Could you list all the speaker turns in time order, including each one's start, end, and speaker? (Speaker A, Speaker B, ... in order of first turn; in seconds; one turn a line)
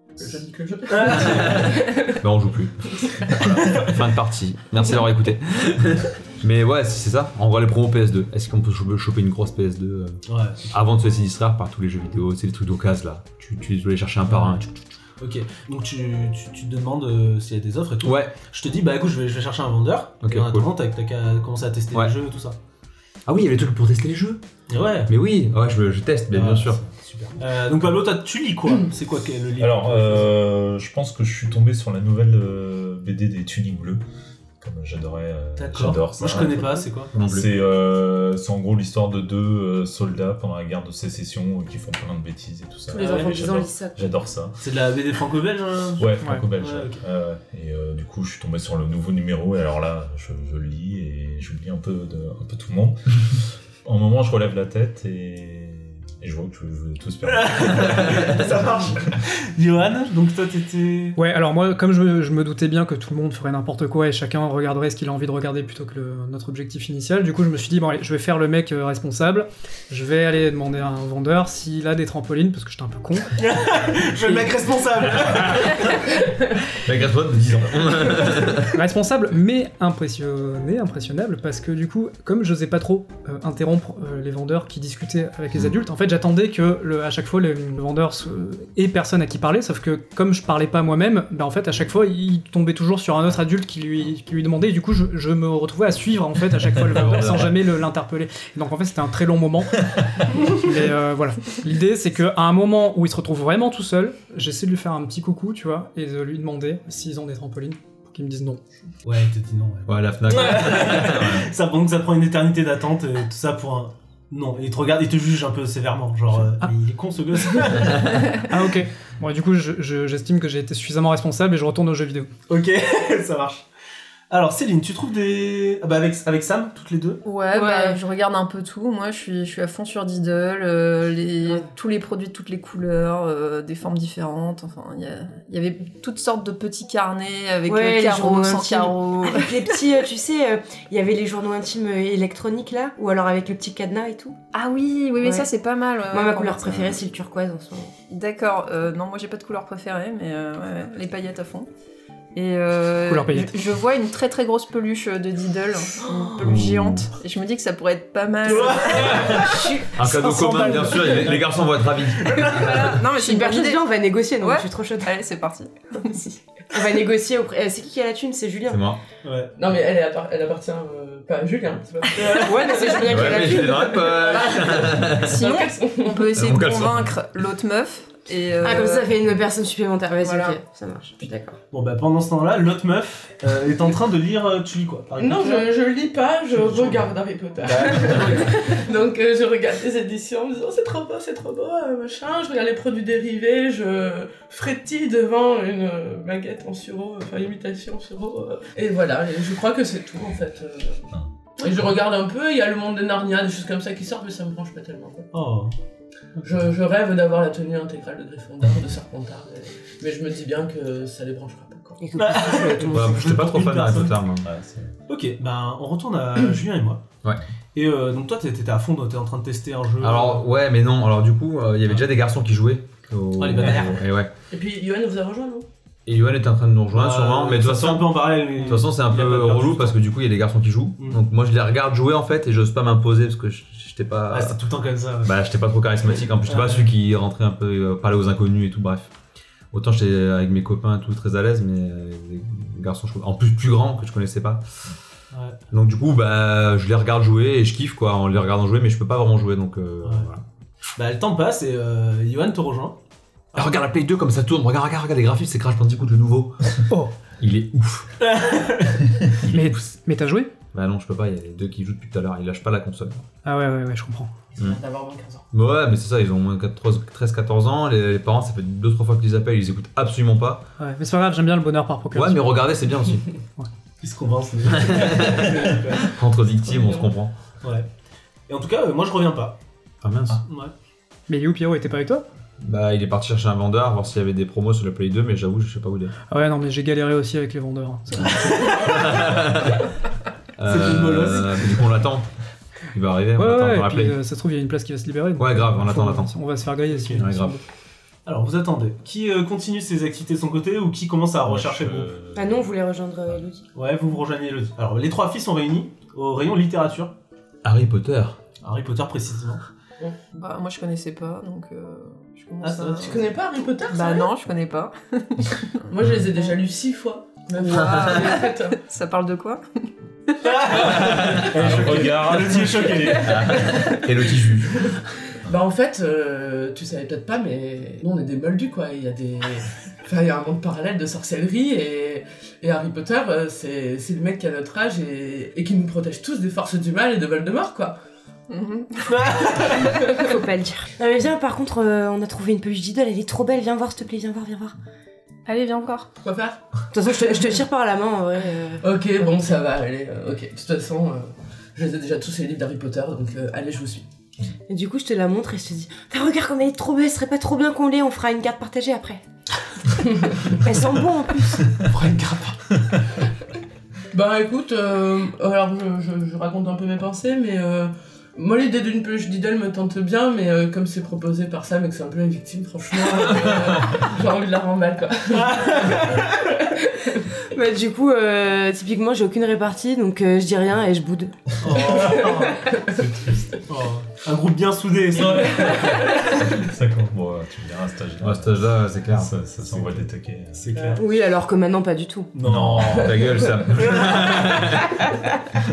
Speaker A: 0.2-2.2
Speaker B: 0.9-1.7
Speaker C: 1.2-2.8
Speaker A: 3.0-3.3
Speaker C: 3.3-14.9
Speaker D: 3.4-3.8
Speaker B: 10.3-10.8
Speaker B: 14.3-14.6
Speaker B: 15.2-22.6
Speaker C: 18.0-18.4
Speaker C: 20.2-20.7
Speaker C: 23.3-24.4
Speaker B: 24.7-25.1
Speaker C: 25.1-26.8
Speaker B: 26.3-30.3
Speaker D: 29.6-34.0
Speaker D: 34.6-44.6
Speaker B: 35.6-37.1
Speaker C: 37.1-37.5
Speaker E: 42.9-44.1
Speaker B: 43.0-43.4
Speaker B: 44.6-47.0
Speaker D: 46.0-59.2
Speaker B: 57.3-61.2
Speaker F: 61.2-73.4
Speaker B: 73.4-76.1
Speaker C: 76.8-78.8
Speaker F: 78.7-108.8
Speaker C: 96.9-97.5
Speaker B: 109.0-118.4
Speaker C: 109.9-111.5
Speaker F: 118.4-122.3
Speaker B: 122.5-123.7
Speaker B: 124.3-127.2
Speaker G: 127.2-139.8
Speaker E: 127.5-128.0
Speaker E: 137.7-144.4
Speaker G: 144.5-147.0
Speaker E: 145.2-145.5
Speaker E: 146.1-147.9
Speaker G: 148.1-151.7
Speaker G: 152.3-159.5
Speaker F: 153.1-153.5
Speaker E: 156.0-156.6
Speaker C: 156.4-157.1
Speaker B: 158.4-159.8
Speaker E: 158.5-160.5
Speaker C: 159.9-163.0
Speaker F: 160.2-161.1
Speaker B: 160.6-162.8
Speaker G: 162.3-166.3
Speaker E: 162.9-165.2
Speaker E: 166.7-168.8
Speaker C: 168.7-169.0
Speaker B: 169.2-169.5
Speaker A: 169.6-176.4
Speaker B: 172.2-172.5
Speaker E: 172.2-174.8
Speaker C: 173.0-175.4
Speaker G: 175.1-179.2
Speaker C: 176.3-177.1
Speaker E: 178.6-181.6
Speaker G: 180.2-180.6
Speaker B: 181.7-185.7
Speaker A: 185.2-205.3
Speaker B: 186.5-187.1
Speaker B: 187.6-188.6
Speaker B: 205.3-205.7
Speaker A: 206.4-212.1
Speaker E: 212.0-213.2
Speaker B: 212.2-214.2
Speaker C: 212.9-214.5
Speaker D: 214.4-214.9
Speaker B: 215.1-217.0
Speaker B: 217.8-220.5
Speaker C: 220.0-224.3
Speaker B: 223.4-224.0
Speaker A: 224.5-225.7
Speaker C: 226.1-234.6
Speaker B: 226.9-230.0
Speaker B: 234.3-235.4
Speaker C: 235.2-239.1
Speaker B: 236.4-236.9
Speaker C: 239.7-244.7
Speaker B: 245.3-245.6
Speaker C: 245.7-250.4
Speaker B: 250.0-250.3
Speaker B: 251.0-253.0
Speaker C: 253.5-256.8
Speaker C: 257.4-258.1
Speaker B: 258.2-259.1
Speaker C: 259.5-259.7
Speaker F: 259.5-260.5
Speaker C: 260.7-263.3
Speaker F: 263.4-264.4
Speaker A: 264.6-265.4
Speaker C: 265.5-270.6
Speaker F: 270.8-272.7
Speaker C: 272.1-273.3
Speaker B: 274.0-276.1
Speaker C: 274.8-277.3
Speaker A: 276.6-277.1
Speaker B: 277.6-277.9
Speaker B: 278.5-279.6
Speaker C: 280.0-280.4
Speaker B: 280.4-280.7
Speaker F: 281.3-282.3
Speaker C: 282.6-286.2
Speaker F: 286.3-288.7
Speaker C: 288.2-289.8
Speaker B: 288.3-289.3
Speaker C: 290.6-292.3
Speaker B: 290.6-291.9
Speaker C: 292.9-294.2
Speaker F: 293.4-297.6
Speaker C: 295.4-296.3
Speaker B: 296.9-297.2
Speaker C: 297.2-297.6
Speaker B: 298.2-302.1
Speaker D: 301.4-302.7
Speaker E: 302.4-303.7
Speaker B: 303.8-307.1
Speaker C: 307.6-308.4
Speaker B: 308.6-309.6
Speaker G: 310.3-313.3
Speaker B: 312.6-313.2
Speaker A: 313.0-314.3
Speaker G: 313.9-315.8
Speaker A: 315.9-318.8
Speaker G: 317.6-320.5
Speaker B: 320.4-323.6
Speaker C: 321.0-321.4
Speaker D: 321.0-323.5
Speaker C: 323.2-325.0
Speaker A: 323.5-324.3
Speaker A: 325.5-338.0
Speaker G: 338.5-340.2
Speaker B: 339.1-340.0
Speaker E: 339.7-344.7
Speaker G: 345.5-346.1
Speaker A: 346.2-346.6
Speaker E: 346.9-348.8
Speaker A: 348.8-354.1
Speaker E: 354.7-359.2
Speaker E: 360.5-361.9
Speaker B: 361.9-362.8
Speaker A: 364.1-376.3
Speaker B: 375.3-376.4
Speaker A: 376.8-377.3
Speaker E: 377.5-381.6
Speaker B: 381.6-382.6
Speaker A: 381.9-383.1
Speaker D: 382.9-383.6
Speaker B: 383.7-385.9
Speaker D: 385.1-390.7
Speaker C: 388.2-389.3
Speaker B: 390.6-391.1
Speaker E: 390.8-392.3
Speaker B: 392.3-394.6
Speaker D: 392.4-393.2
Speaker C: 392.8-395.0